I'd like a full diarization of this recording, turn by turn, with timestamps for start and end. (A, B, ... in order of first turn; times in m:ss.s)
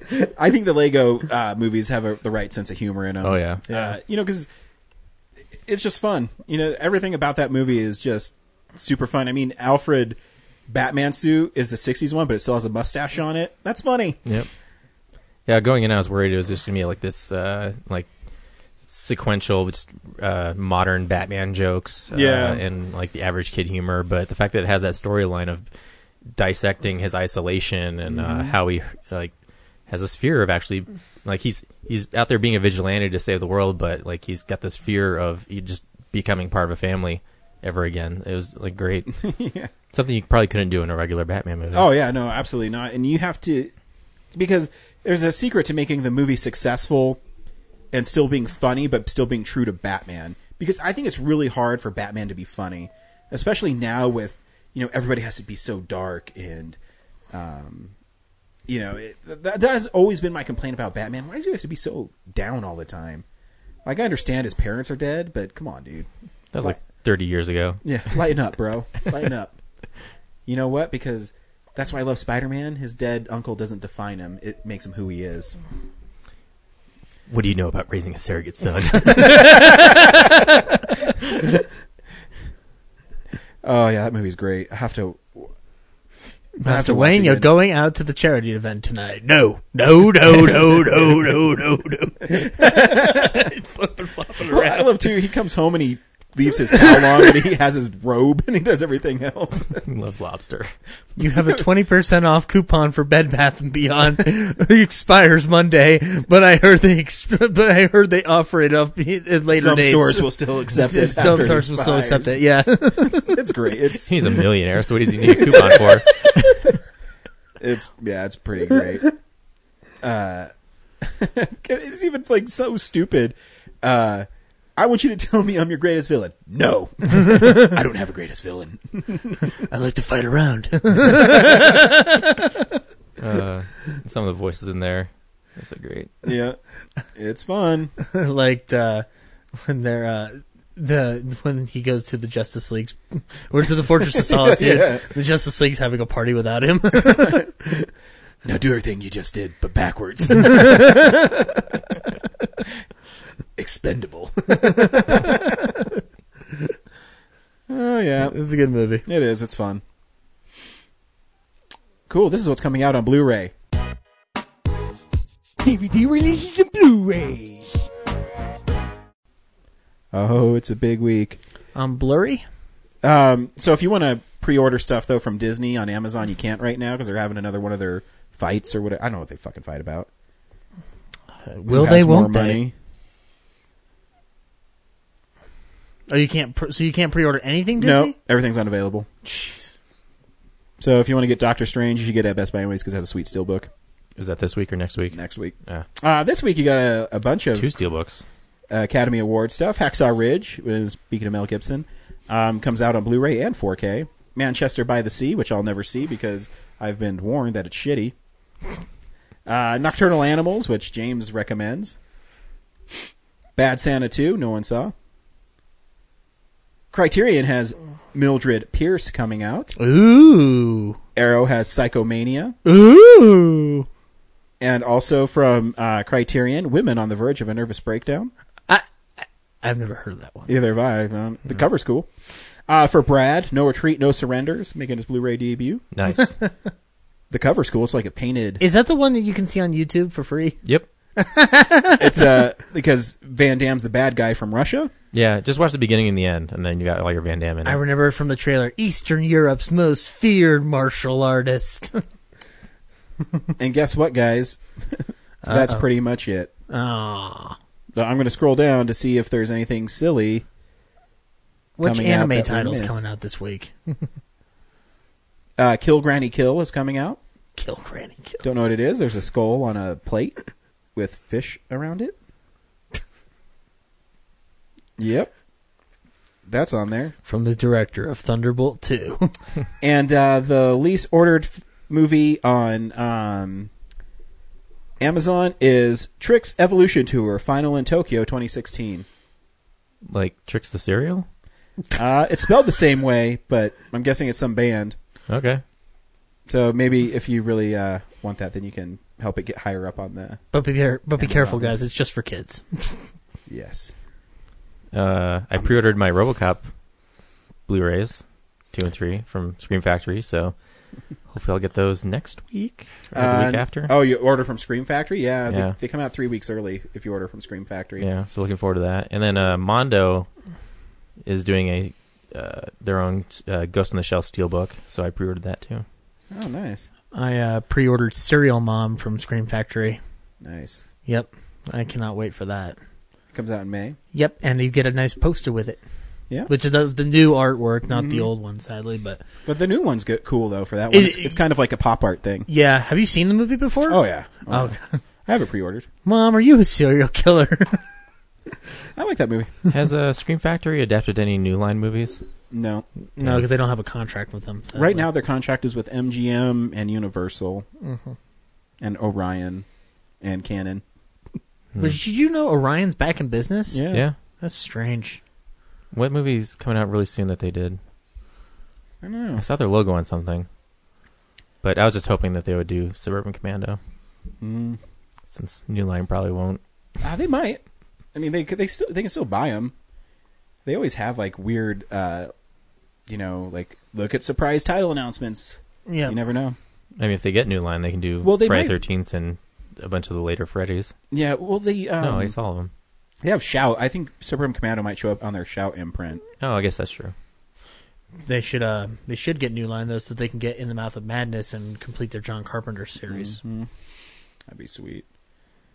0:00.4-0:04.5 A
0:03.2-0:03.6 B
0:03.7-0:03.9 C
0:05.7-0:10.2 A
0:10.7-0:14.2 A
0:15.4-0:18.1 B
0:18.8-0:25.6 B
0:22.1-0:22.6 A
0:26.3-0:29.3 B
0:28.1-0:28.5 A
0:29.9-0:39.2 B
0:39.2-0:39.7 A
0:39.9-0:41.9 B
0:41.7-0:43.7 A
0:44.3-0:47.2 A
0:47.9-0:56.8 A
0:57.3-0:57.9 A
0:58.7-1:03.2 A
1:03.8-1:06.1 A
1:06.5-1:08.3 B
1:07.8-1:09.5 A
1:10.5-1:15.6 A
1:17.3-1:20.6 B
1:23.6-1:25.5 A
1:26.6-1:35.1 C
1:26.6-1:27.5 A
1:32.6-1:33.4 A
1:34.5-1:39.8 A
1:36.7-1:37.3 C
1:39.8-1:40.7 B
1:41.2-1:53.4 C
1:49.5-1:52.4 A
1:52.9-1:54.1 A
1:54.1-1:56.6 B
1:55.5-1:55.8 A
1:57.6-1:59.1 A
2:00.0-2:00.5 A
2:01.0-2:09.5 A
2:09.7-2:12.5 C
2:11.2-2:11.7 A
2:13.2-2:16.1 B
2:16.2-2:16.6 A
2:17.1-2:17.9 A
2:18.0-2:27.9 C
2:24.1-2:25.0 A
2:28.4-2:31.3 A
2:30.5-2:31.2 C
2:33.6-2:35.7 A
2:34.5-2:36.0 C
2:37.7-2:38.4 A
2:38.2-2:39.0 C
2:39.0-2:39.8 A
2:42.1-2:43.5 A
2:45.6-2:47.8 C
2:50.1-2:51.4 A
2:51.7-2:52.4 C
2:53.0-3:00.1 A
3:01.4-3:02.6 C
3:01.7-3:02.7 A
3:06.1-3:08.2 C
3:07.8-3:09.1 A
3:09.2-3:09.7 C
3:10.8-3:13.7 A
3:14.2-3:15.8 B
3:15.1-3:17.7 A
3:17.5-3:18.2 B
3:18.7-3:28.1 A
3:29.4-3:32.0 A
3:33.6-3:34.9 A
3:36.9-3:39.8 A
3:39.8-3:41.0 C
3:41.1-3:42.6 A
3:42.6-3:43.9 C
3:44.6-3:48.3 A
3:48.7-3:50.5 C
3:50.5-3:52.1 A
3:52.6-3:55.8 A
3:55.9-3:56.4 B
3:57.3-3:58.6 A
3:58.6-4:00.6 C
4:01.2-4:02.5 C
4:02.0-4:04.9 A
4:05.1-4:07.8 B
4:07.6-4:12.0 C
4:13.6-4:16.5 A
4:15.4-4:15.9 C
4:16.7-4:17.6 C
4:18.0-4:20.4 A
4:21.8-4:24.1 C
4:21.8-4:23.0 A
4:25.6-4:27.2 A
4:27.6-4:28.4 C
4:28.4-4:30.4 A
4:30.9-4:32.1 A
4:35.0-4:35.3 A
4:36.4-4:37.1 A
4:37.2-4:39.3 C
4:39.8-4:43.7 A
4:45.0-4:49.0 A
4:50.1-4:51.3 B
4:51.9-4:55.0 A
4:55.3-4:55.6 B
4:56.5-5:00.4 A
5:00.5-5:03.0 C
5:01.2-5:01.8 A
5:03.5-5:03.9 A
5:04.9-5:06.7 B
5:07.7-5:10.5 B
5:11.3-5:13.9 B
5:13.1-5:18.1 A
5:15.5-5:15.8 B
5:18.0-5:20.3 B
5:21.2-5:25.8 B
5:26.3-5:26.9 A
5:27.1-5:30.0 C
5:30.4-5:30.8 A
5:31.0-5:32.8 C
5:33.3-5:34.0 A
5:34.1-5:35.8 C
5:36.5-5:39.2 C
5:37.9-5:38.3 A
5:39.4-5:42.5 A
5:40.9-5:41.4 C
5:42.5-5:45.0 C
5:43.9-5:45.9 A
5:46.0-5:47.8 C
5:49.0-5:49.5 A
5:49.7-5:52.2 B
5:52.5-5:52.8 A
5:53.2-5:55.0 C
5:53.2-5:53.4 B
5:54.7-5:57.6 A
5:57.8-5:58.1 C
5:58.8-5:59.6 A
6:00.2-6:00.8 A
6:01.8-6:03.8 C
6:03.7-6:04.0 A
6:04.4-6:05.2 C
6:05.9-6:07.8 B
6:09.0-6:09.4 A
6:09.4-6:10.5 B
6:11.6-6:13.8 B
6:14.4-6:14.8 A
6:15.3-6:16.6 B
6:17.0-6:17.6 A
6:18.1-6:19.7 A
6:20.6-6:22.3 A
6:23.1-6:26.6 A
6:25.8-6:26.2 C
6:27.0-6:30.9 B
6:28.2-6:28.7 A
6:31.1-6:32.3 A
6:32.0-6:32.7 B
6:33.2-6:36.2 A
6:36.4-6:37.1 B
6:38.2-6:43.4 C
6:43.1-6:43.7 A
6:44.5-6:45.0 A